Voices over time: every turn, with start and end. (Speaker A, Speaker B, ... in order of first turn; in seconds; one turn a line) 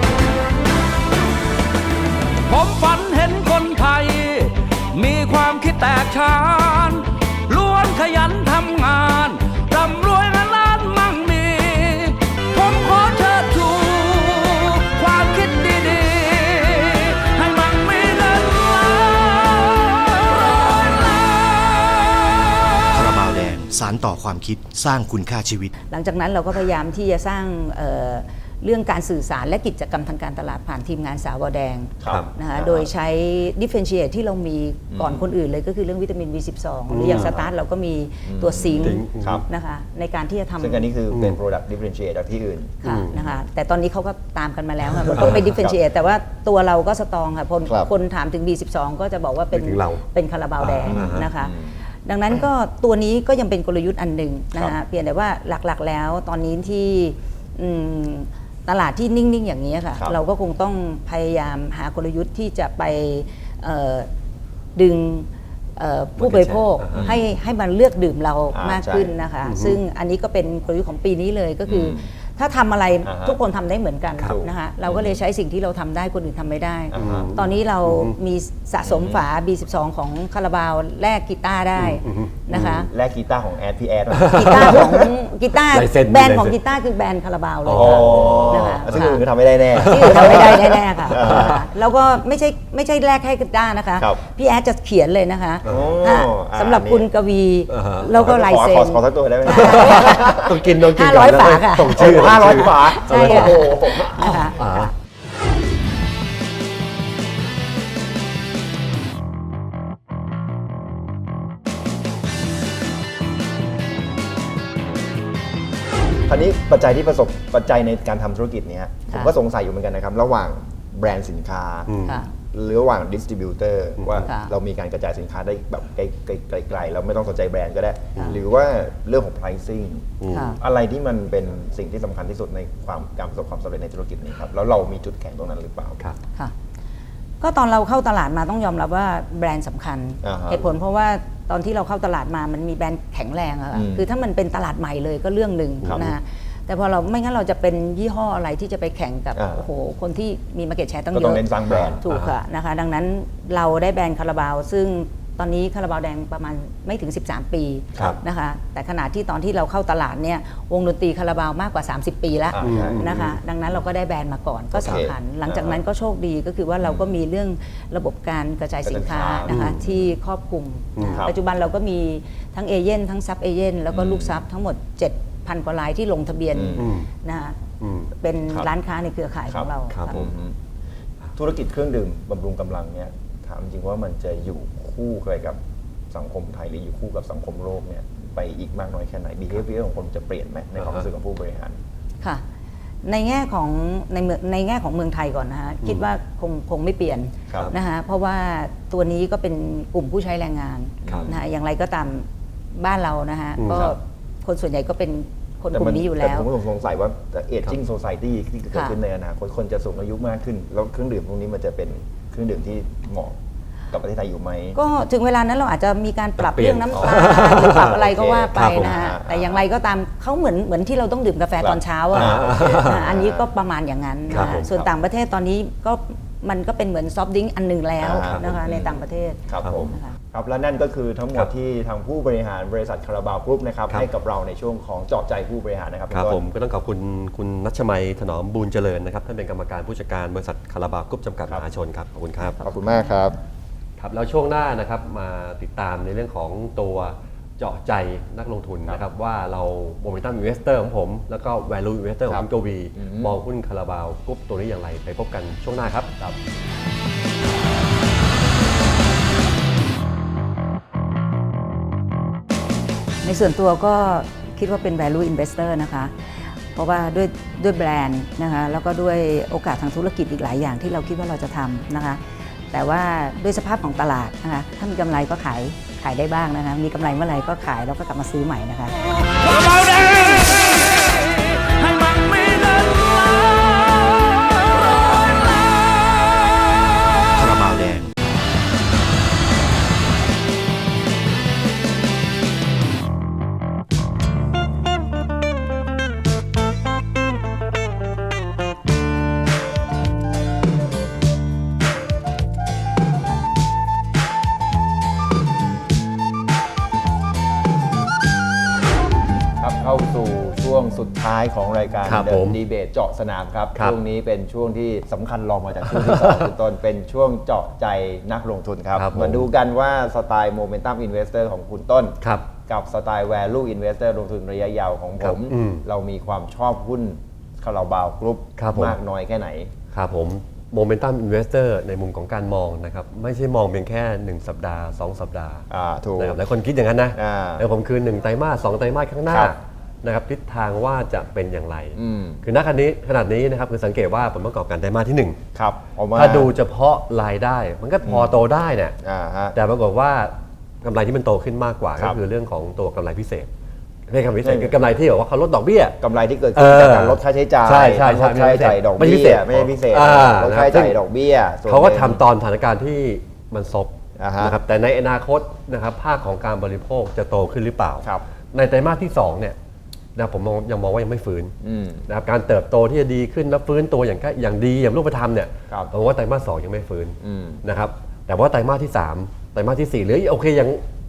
Speaker A: 2.4-23.2
Speaker B: 22.9-25.7
Speaker C: 25.9-40.9
Speaker D: 32.0-32.9
Speaker D: 34.9-35.3
Speaker E: 36.9-37.5
Speaker D: 37.1-37.4
Speaker D: 38.2-39.4
Speaker E: 38.8-39.4
Speaker D: 40.6-42.8
Speaker E: 41.1-41.4
Speaker C: 42.8-64.1
Speaker E: 42.8-43.2
Speaker D: 45.1-45.7
Speaker E: 45.1-45.6
Speaker D: 47.6-47.9
Speaker E: 49.5-50.0
Speaker E: 50.6-51.3
Speaker D: 50.8-51.8
Speaker C: 64.7-82.9
Speaker E: 66.2-67.1
Speaker D: 66.9-67.2
Speaker D: 68.5-69.1
Speaker E: 69.4-69.8
Speaker D: 71.7-72.1
Speaker D: 73.0-73.4
Speaker D: 74.2-75.2
Speaker D: 76.9-77.3
Speaker E: 77.0-78.2
Speaker D: 78.8-79.2
Speaker E: 81.8-82.9
Speaker D: 82.9-85.1
Speaker E: 84.1-85.1
Speaker C: 84.3-89.2
Speaker E: 85.7-86.6
Speaker E: 87.6-89.1
Speaker D: 87.7-91.7
Speaker E: 89.7-91.6
Speaker C: 89.8-104.9
Speaker D: 95.7-97.1
Speaker E: 97.7-98.3
Speaker D: 98.2-100.6
Speaker E: 99.5-104.9
Speaker D: 101.9-104.5
Speaker D: 116.2-136.0
Speaker E: 121.9-122.2
Speaker C: 122.0-122.3
Speaker E: 124.0-124.3
Speaker C: 124.2-124.5
Speaker E: 130.2-130.6
Speaker C: 130.3-130.6
Speaker C: 137.4-151.4
Speaker D: 140.2-140.7
Speaker D: 143.7-144.1
Speaker D: 145.8-146.1
Speaker E: 145.8-146.1
Speaker D: 149.3-149.7
Speaker D: 151.1-152.0
Speaker E: 151.7-152.3
Speaker C: 152.0-177.6
Speaker D: 162.5-163.3
Speaker E: 162.6-163.4
Speaker D: 164.7-165.8
Speaker D: 166.8-167.1
Speaker D: 168.8-170.1
Speaker E: 169.5-169.8
Speaker E: 170.9-171.2
Speaker D: 173.9-174.4
Speaker D: 176.5-176.9
Speaker E: 176.8-177.1
Speaker E: 177.8-178.1
Speaker C: 178.2-180.3
Speaker D: 179.5-180.6
Speaker E: 179.9-180.2
Speaker D: 181.3-185.6
Speaker D: 186.1-191.8
Speaker E: 190.8-191.0
Speaker C: 193.0-206.5
Speaker D: 201.0-201.4
Speaker E: 203.6-203.9
Speaker D: 205.7-213.4
Speaker D: 213.9-214.8
Speaker C: 214.7-230.2
Speaker E: 216.4-218.0
Speaker D: 217.0-219.6
Speaker E: 218.5-219.0
Speaker D: 221.6-223.4
Speaker E: 222.1-223.1
Speaker E: 224.3-224.7
Speaker D: 224.3-224.9
Speaker D: 228.0-236.4
Speaker E: 228.1-228.5
Speaker E: 229.6-229.9
Speaker E: 236.1-242.6
Speaker D: 242.5-243.3
Speaker E: 244.0-256.1
Speaker D: 252.3-253.4
Speaker C: 263.2-279.0
Speaker A: 279.3-287.9
Speaker B: 287.4-288.1
Speaker D: 309.6-329.7
Speaker E: 312.0-312.6
Speaker E: 315.9-316.5
Speaker E: 318.9-319.4
Speaker E: 322.2-322.5
Speaker E: 325.2-325.8
Speaker E: 328.6-329.0
Speaker E: 329.9-335.6
Speaker D: 335.7-336.4
Speaker E: 336.2-345.4
Speaker D: 337.1-337.6
Speaker D: 339.3-339.5
Speaker D: 341.9-342.4
Speaker D: 345.5-346.5
Speaker E: 346.1-348.9
Speaker D: 348.0-348.4
Speaker D: 349.0-349.6
Speaker E: 349.5-353.5
Speaker E: 354.1-356.0
Speaker D: 354.4-354.8
Speaker D: 356.0-362.2
Speaker E: 356.6-361.0
Speaker E: 361.7-369.6
Speaker D: 364.2-364.6
Speaker E: 370.1-371.5
Speaker D: 371.6-372.1
Speaker E: 372.1-380.8
Speaker D: 377.2-377.6